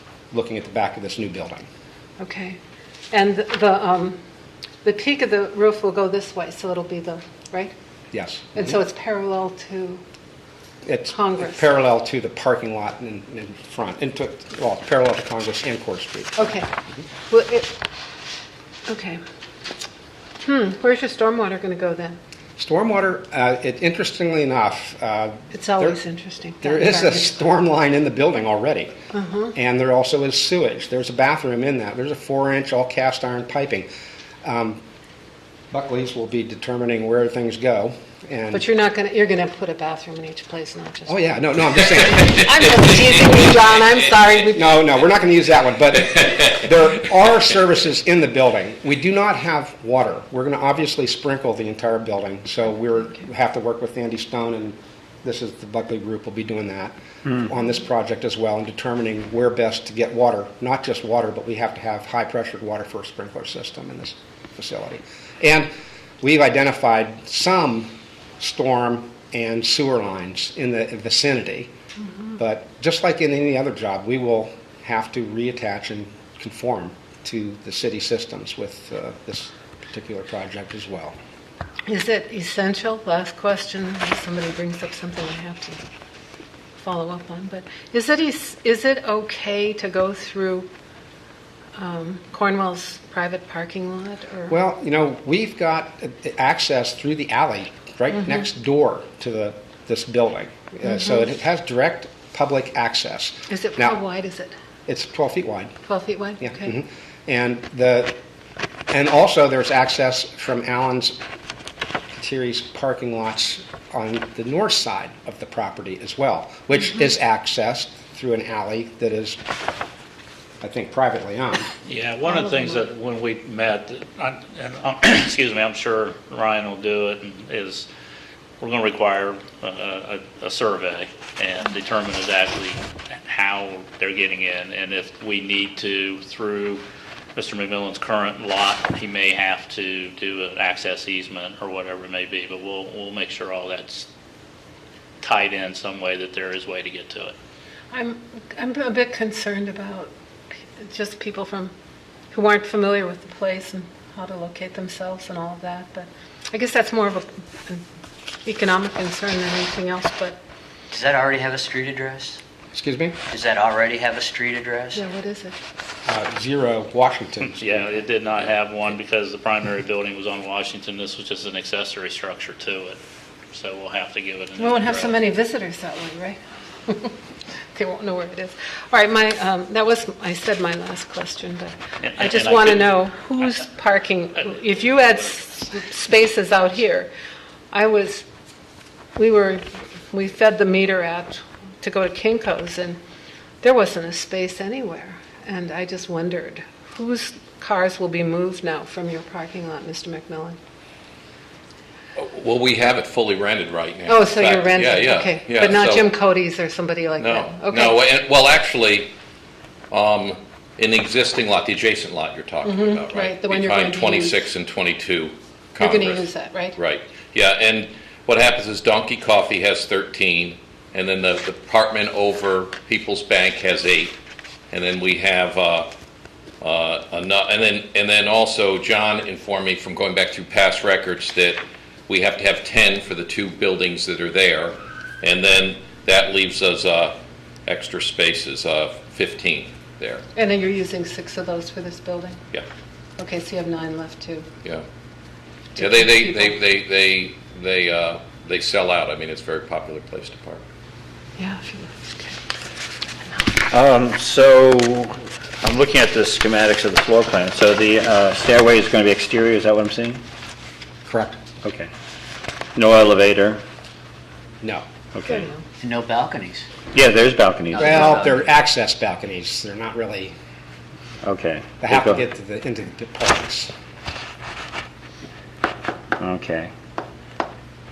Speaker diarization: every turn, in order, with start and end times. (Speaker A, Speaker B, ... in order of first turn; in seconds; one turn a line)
Speaker A: 0.3-1.6
Speaker B: 2.2-2.6
Speaker B: 3.1-4.2
Speaker B: 4.8-7.7
Speaker A: 8.1-8.8
Speaker B: 8.6-10.0
Speaker A: 10.8-16.4
Speaker B: 11.1-11.7
Speaker B: 16.4-16.7
Speaker B: 17.3-17.8
Speaker B: 18.9-19.2
Speaker B: 20.4-22.2
Speaker A: 22.6-26.0
Speaker B: 25.5-27.3
Speaker A: 26.6-28.9
Speaker B: 29.1-29.5
Speaker A: 29.5-33.9
Speaker A: 34.4-34.8
Speaker A: 35.7-38.7
Speaker B: 38.5-41.3
Speaker A: 41.1-42.5
Speaker B: 41.9-44.7
Speaker A: 44.5-65.7
Speaker A: 66.2-71.7
Speaker A: 72.3-81.2
Speaker B: 81.9-85.8
Speaker B: 86.8-90.7
Speaker B: 91.8-94.6
Speaker A: 94.5-104.0
Speaker B: 100.8-101.2
Speaker B: 103.5-104.5
Speaker A: 104.9-105.7
Speaker B: 105.8-106.7
Speaker A: 106.4-108.2
Speaker A: 108.9-111.2
Speaker A: 112.1-119.4
Speaker A: 120.6-121.7
Speaker C: 121.9-127.9
Speaker C: 128.6-136.8
Speaker C: 137.3-144.1
Speaker C: 145.2-147.3
Speaker B: 147.9-150.1
Speaker B: 150.8-151.7
Speaker B: 152.3-157.8
Speaker B: 158.4-160.4
Speaker D: 160.9-162.4
Speaker A: 162.7-163.2
Speaker D: 163.3-165.0
Speaker B: 164.9-165.6
Speaker A: 166.1-168.0
Speaker C: 167.6-173.0
Speaker C: 173.5-175.2
Speaker B: 174.6-177.2
Speaker B: 177.7-187.1
Speaker C: 182.0-183.0
Speaker B: 187.7-188.2
Speaker B: 189.2-193.0
Speaker B: 193.6-200.6
Speaker E: 202.2-206.1
Speaker B: 204.1-208.1
Speaker E: 207.2-209.1
Speaker E: 209.9-216.2
Speaker B: 212.6-214.5
Speaker B: 215.8-216.8
Speaker E: 216.8-224.2
Speaker E: 224.7-225.9
Speaker E: 226.6-240.2
Speaker B: 240.3-242.4
Speaker B: 243.2-244.4
Speaker B: 245.8-246.6
Speaker E: 245.8-250.6
Speaker B: 251.4-252.4
Speaker F: 253.7-260.2
Speaker A: 261.1-261.4
Speaker F: 261.6-261.9
Speaker F: 262.7-263.6
Speaker F: 265.1-265.5
Speaker B: 265.2-265.6
Speaker D: 265.8-266.7
Speaker F: 266.9-268.1
Speaker D: 267.7-268.4
Speaker A: 267.8-270.3
Speaker F: 271.2-272.2
Speaker A: 271.8-273.7
Speaker F: 276.2-276.7